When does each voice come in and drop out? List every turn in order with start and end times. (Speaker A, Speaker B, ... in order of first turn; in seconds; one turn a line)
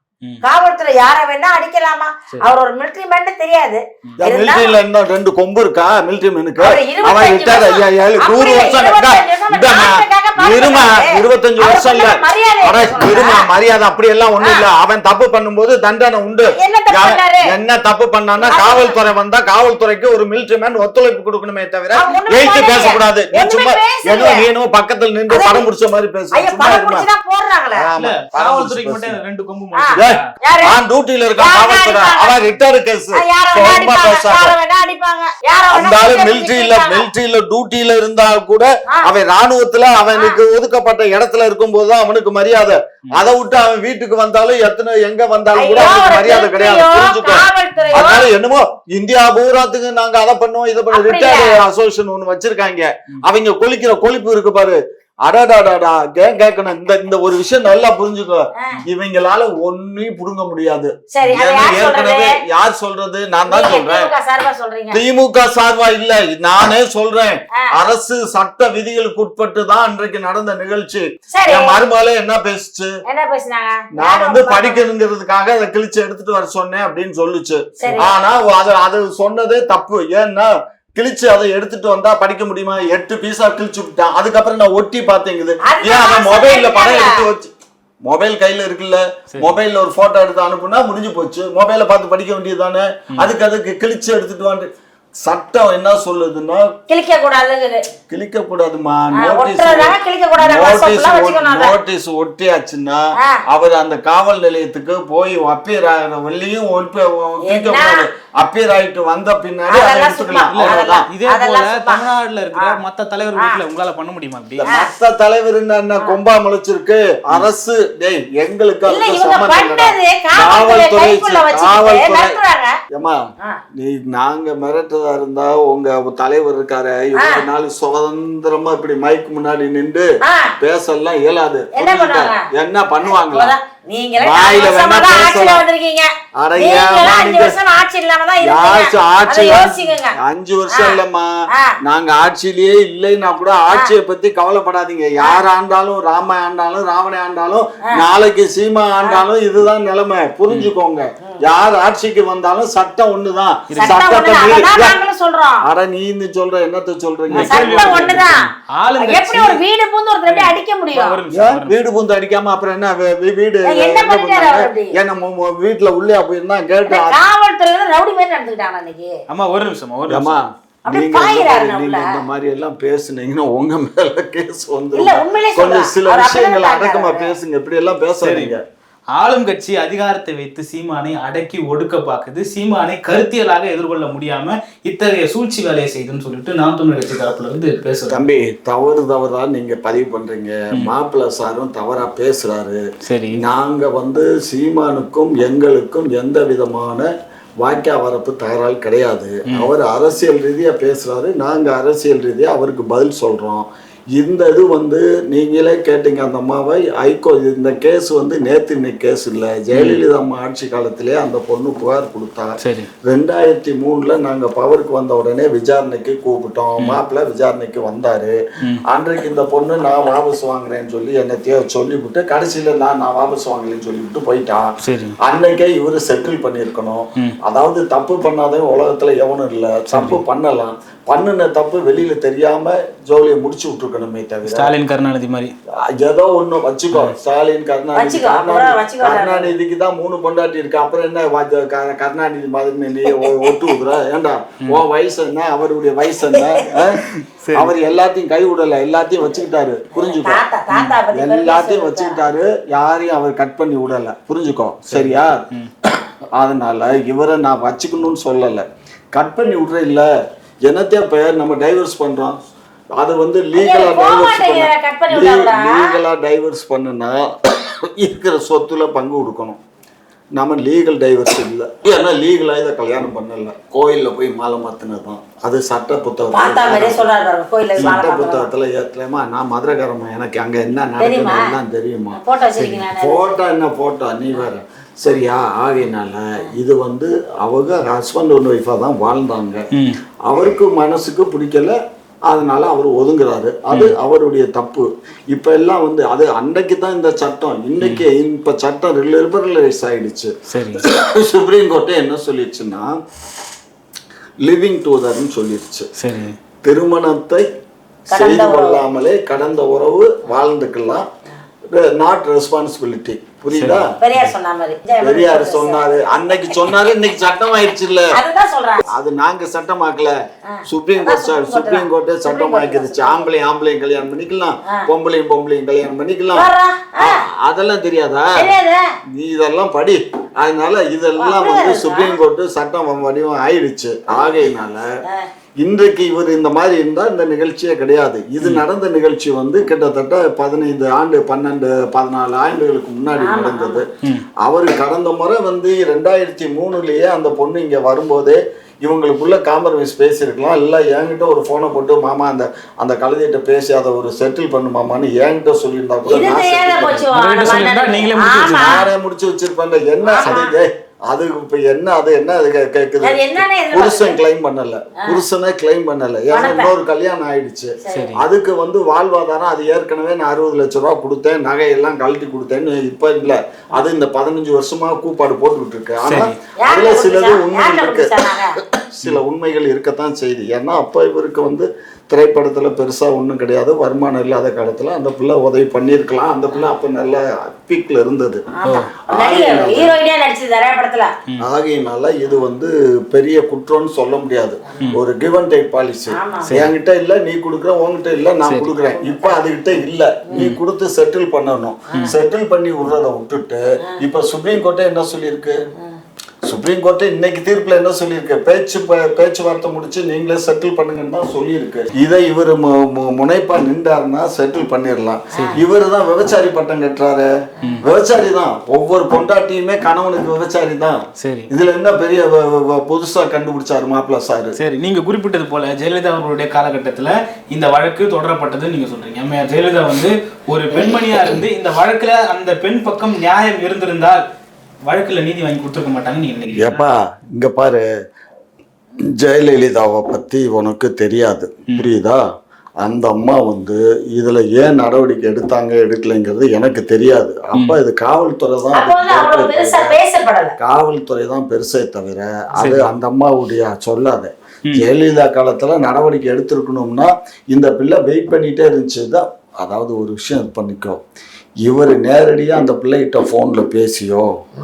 Speaker A: 0.4-4.8
Speaker B: 4.2-27.1
Speaker A: 6.6-13.5
Speaker A: 14.4-14.7
Speaker A: 16.6-17.4
Speaker A: 18.4-18.9
Speaker A: 21.9-24.5
Speaker A: 25.3-25.6
Speaker A: 26.3-27.9
Speaker B: 27.8-29.2
Speaker C: 28.0-30.2
Speaker A: 29.7-30.7
Speaker B: 29.9-34.5
Speaker A: 31.4-32.3
Speaker A: 33.1-37.1
Speaker B: 35.7-64.1
Speaker A: 45.5-48.3
Speaker C: 47.8-48.1
Speaker A: 50.9-51.6
Speaker A: 61.1-62.4
Speaker A: 63.5-65.0
Speaker B: 64.9-72.9
Speaker A: 71.3-71.8
Speaker A: 73.1-74.8
Speaker B: 73.9-87.5
Speaker A: 77.8-78.1
Speaker A: 85.6-87.3
Speaker B: 88.0-94.7
Speaker C: 89.3-89.6
Speaker B: 95.2-96.7
Speaker A: 96.9-97.8
Speaker B: 98.1-111.1
Speaker A: 99.1-101.7
Speaker A: 107.5-108.0
Speaker A: 109.7-112.8
Speaker C: 110.5-114.7
Speaker A: 113.3-113.6
Speaker B: 114.6-122.4
Speaker A: 114.7-114.9
Speaker A: 118.9-122.8
Speaker B: 123.8-130.1
Speaker A: 127.2-127.4
Speaker A: 130.2-130.5
Speaker B: 130.6-133.6
Speaker A: 131.7-132.4
Speaker A: 133.0-140.2
Speaker B: 134.2-135.6
Speaker B: 136.4-137.6
Speaker B: 138.4-141.3
Speaker A: 140.7-141.0
Speaker B: 141.8-155.0
Speaker C: 153.7-154.1
Speaker A: 153.8-155.6
Speaker B: 155.6-158.5
Speaker C: 157.3-158.2
Speaker A: 157.4-158.5
Speaker C: 158.7-159.6
Speaker A: 159.0-161.2
Speaker C: 160.2-161.7
Speaker B: 161.3-167.2
Speaker A: 163.7-164.9
Speaker A: 166.8-169.1
Speaker C: 169.3-170.4
Speaker B: 170.1-178.6
Speaker A: 170.9-172.1
Speaker A: 174.9-177.3
Speaker C: 178.2-178.6
Speaker C: 179.1-188.2
Speaker B: 188.1-192.8
Speaker C: 193.1-193.4
Speaker B: 193.4-197.1
Speaker B: 197.6-212.5
Speaker C: 209.7-210.0
Speaker C: 212.6-212.9
Speaker B: 213.1-218.3
Speaker B: 218.9-224.6
Speaker C: 224.8-225.2
Speaker B: 225.2-234.7
Speaker C: 229.9-230.2
Speaker C: 234.4-235.5
Speaker B: 235.9-247.0
Speaker A: 237.9-239.5
Speaker A: 243.1-243.8
Speaker A: 246.2-246.8
Speaker C: 246.9-247.7
Speaker B: 247.5-250.4
Speaker A: 249.9-252.2
Speaker C: 250.7-251.0
Speaker B: 251.1-255.4
Speaker C: 254.9-255.7
Speaker B: 256.4-260.1
Speaker B: 260.7-262.4
Speaker B: 263.0-269.6
Speaker A: 263.5-266.0
Speaker B: 270.4-277.1
Speaker A: 276.3-278.5
Speaker B: 277.8-282.2
Speaker A: 281.0-281.5
Speaker A: 282.1-283.3
Speaker C: 282.6-282.9
Speaker B: 282.9-289.6
Speaker C: 289.7-290.0
Speaker B: 290.3-302.9
Speaker C: 293.7-294.0
Speaker C: 297.8-298.1
Speaker C: 300.5-300.8
Speaker B: 304.4-305.9
Speaker C: 306.0-306.4
Speaker B: 306.6-307.4
Speaker A: 308.1-308.8
Speaker B: 308.1-311.1
Speaker B: 311.7-313.9
Speaker C: 313.5-314.3
Speaker A: 314.0-316.6
Speaker B: 315.0-318.1
Speaker A: 318.1-318.9
Speaker B: 318.9-320.1
Speaker A: 320.5-323.3
Speaker B: 320.6-326.5
Speaker A: 326.3-327.2
Speaker B: 327.0-328.5
Speaker A: 328.4-328.8
Speaker B: 329.1-334.9
Speaker A: 331.2-332.2
Speaker B: 335.6-343.9
Speaker A: 343.2-343.8
Speaker B: 344.4-357.5
Speaker A: 356.1-358.8
Speaker C: 357.1-358.9
Speaker B: 358.5-388.4
Speaker A: 360.0-360.5
Speaker A: 363.0-364.2
Speaker A: 366.3-366.7
Speaker A: 367.8-368.1
Speaker C: 367.9-368.2
Speaker C: 376.1-376.4
Speaker A: 376.6-378.6
Speaker A: 388.5-391.1
Speaker C: 388.6-388.9
Speaker B: 389.1-389.9
Speaker B: 391.4-405.6
Speaker A: 396.1-396.5
Speaker C: 396.5-396.7
Speaker C: 398.4-398.7
Speaker A: 398.9-399.4
Speaker B: 406.4-417.3
Speaker A: 415.3-415.6
Speaker C: 415.3-415.6
Speaker B: 417.8-421.0
Speaker C: 421.2-421.5
Speaker B: 421.5-424.6
Speaker C: 424.6-434.2
Speaker C: 434.9-436.8
Speaker B: 436.6-437.8
Speaker B: 439.1-442.2
Speaker B: 442.8-450.0
Speaker A: 448.7-450.5
Speaker B: 450.6-461.0
Speaker C: 452.6-453.0
Speaker B: 461.6-464.3